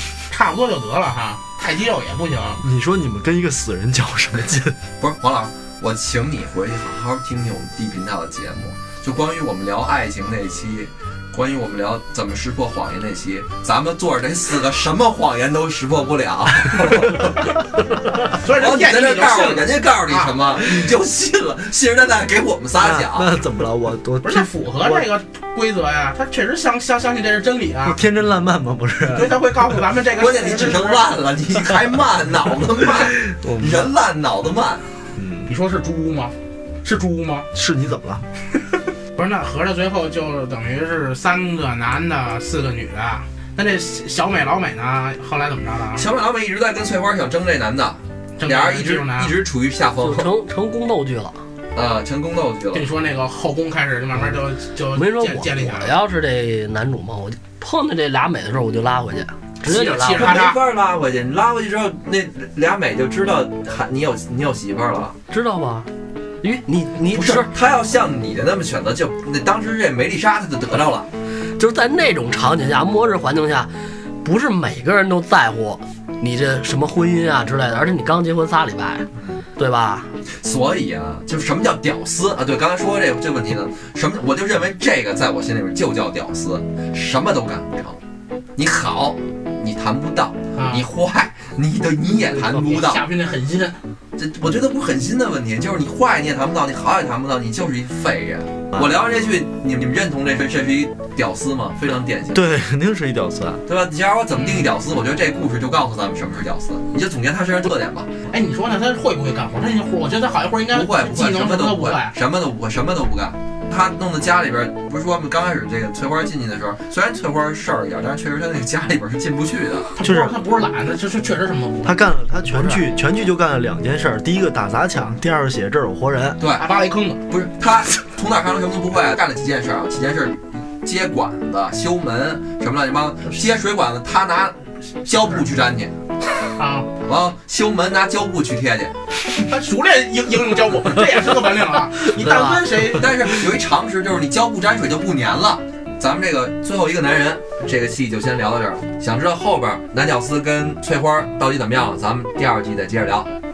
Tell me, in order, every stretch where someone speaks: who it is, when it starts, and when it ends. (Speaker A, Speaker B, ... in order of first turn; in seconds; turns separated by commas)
Speaker A: 0.3-2.6, Speaker B: 2.6-4.8, Speaker C: 5.0-17.7, Speaker C: 18.3-23.4, Speaker A: 18.3-20.4, Speaker B: 22.8-25.1, Speaker A: 24.2-28.0, Speaker B: 27.9-29.4, Speaker A: 29.1-31.1, Speaker C: 30.2-34.9, Speaker B: 32.8-33.9, Speaker B: 35.2-35.5, Speaker A: 35.5-37.5, Speaker B: 37.5-38.3, Speaker A: 39.1-46.1, Speaker C: 46.0-50.3, Speaker A: 48.4-49.3, Speaker D: 50.0-51.4, Speaker C: 51.8-52.9, Speaker A: 52.7-56.0, Speaker D: 54.9-60.4, Speaker A: 59.6-60.6, Speaker C: 60.1-65.2, Speaker D: 65.3-65.9, Speaker D: 66.4-67.5, Speaker C: 67.1-71.1, Speaker D: 71.6-73.7, Speaker D: 74.2-79.1, Speaker D: 79.6-80.1, Speaker C: 80.3-88.0, Speaker C: 88.6-93.0, Speaker A: 90.5-90.9, Speaker A: 92.2-93.8, Speaker C: 94.2-102.4, Speaker B: 102.3-103.6, Speaker C: 103.7-108.3, Speaker A: 104.3-104.7, Speaker A: 108.3-112.2, Speaker C: 110.7-119.9, Speaker A: 120.0-122.1, Speaker B: 120.0-120.4, Speaker B: 121.8-126.4, Speaker D: 122.5-122.8, Speaker C: 126.4-126.7, Speaker A: 126.5-127.2, Speaker C: 127.3-135.9, Speaker A: 136.6-136.9, Speaker C: 137.1-139.0, Speaker A: 139.4-143.1, Speaker D: 142.2-142.7, Speaker C: 142.9-153.3